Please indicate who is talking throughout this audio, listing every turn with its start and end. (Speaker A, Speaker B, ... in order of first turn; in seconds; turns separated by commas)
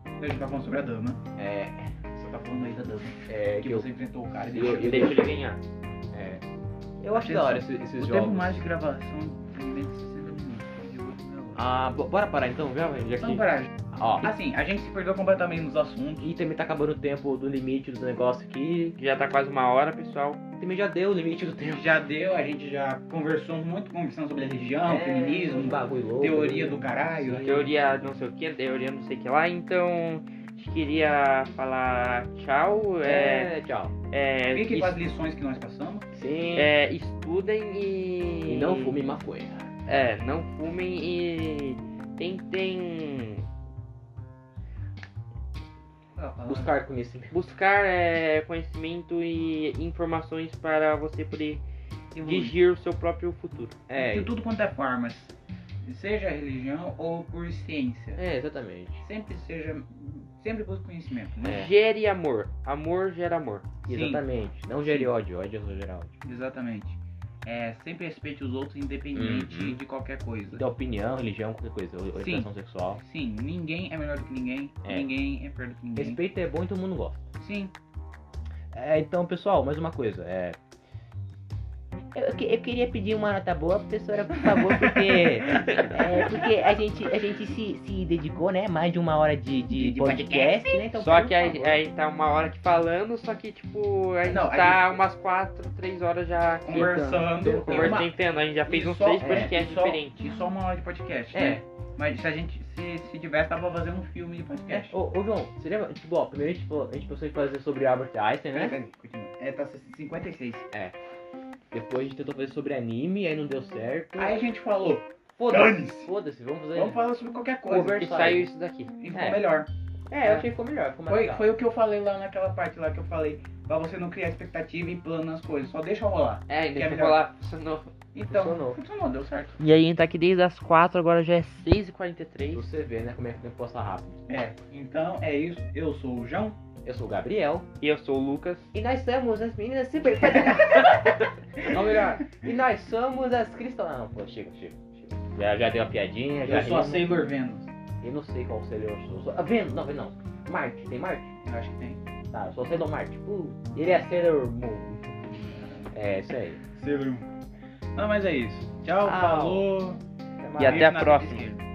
Speaker A: 0.2-1.2, Speaker B: 1.4-1.9, Speaker A: 2.1-5.2, Speaker B: 3.3-3.9, Speaker B: 4.5-5.3, Speaker C: 4.6-5.6, Speaker B: 6.1-6.4, Speaker B: 7.0-8.7, Speaker A: 7.1-11.7, Speaker B: 11.6-14.3, Speaker A: 13.2-16.3, Speaker B: 16.2-19.0, Speaker C: 19.0-20.4, Speaker B: 20.6-21.9, Speaker A: 21.7-27.6, Speaker B: 24.8-28.1, Speaker C: 27.4-33.5, Speaker B: 33.0-33.9, Speaker C: 34.1-35.0, Speaker A: 34.5-36.0, Speaker B: 36.1-36.7, Speaker C: 36.5-39.0, Speaker B: 38.5-39.7, Speaker C: 39.9-43.5, Speaker A: 46.1-46.8, Speaker B: 46.5-47.4, Speaker C: 47.3-51.6, Speaker A: 52.1-52.6, Speaker C: 52.2-53.8, Speaker B: 53.9-54.3, Speaker A: 53.9-58.2, Speaker B: 58.2-59.0, Speaker A: 59.0-61.7, Speaker B: 61.4-61.7, Speaker C: 61.5-63.7, Speaker B: 63.9-66.2, Speaker A: 63.9-64.2, Speaker A: 64.8-65.1, Speaker A: 66.2-70.6, Speaker B: 69.2-69.8, Speaker B: 70.5-73.0, Speaker A: 72.2-72.5, Speaker A: 73.0-76.2, Speaker B: 76.0-77.2, Speaker A: 77.4-77.7, Speaker B: 78.7-80.6, Speaker B: 82.1-91.8, Speaker C: 85.5-86.1, Speaker A: 89.7-90.9, Speaker C: 90.9-100.2, Speaker A: 94.3-95.0, Speaker A: 96.7-105.0, Speaker B: 96.7-98.1, Speaker B: 99.2-99.5, Speaker B: 101.3-101.6, Speaker B: 104.7-108.8, Speaker A: 108.5-110.7, Speaker B: 111.7-114.4, Speaker A: 114.2-116.1, Speaker B: 115.4-117.0, Speaker A: 116.7-118.0, Speaker B: 117.7-118.5, Speaker C: 117.8-118.9, Speaker A: 119.0-119.7, Speaker B: 119.1-119.4, Speaker B: 120.1-121.5, Speaker A: 121.1-127.2, Speaker C: 126.5-127.9, Speaker A: 128.1-129.6, Speaker B: 128.3-128.8, Speaker C: 129.6-132.7, Speaker B: 132.5-134.2, Speaker A: 134.3-136.6, Speaker B: 136.8-137.7, Speaker C: 137.8-138.7, Speaker B: 138.7-147.2, Speaker A: 141.6-142.6, Speaker A: 146.4-147.7, Speaker B: 148.0-151.3, Speaker A: 151.4-152.0, Speaker B: 152.3-155.3, Speaker A: 155.3-155.9, Speaker B: 155.9-156.6, Speaker A: 156.7-157.3, Speaker A: 158.0-160.0, Speaker B: 159.0-159.7, Speaker B: 160.4-161.1, Speaker C: 160.6-161.5, Speaker A: 160.6-161.6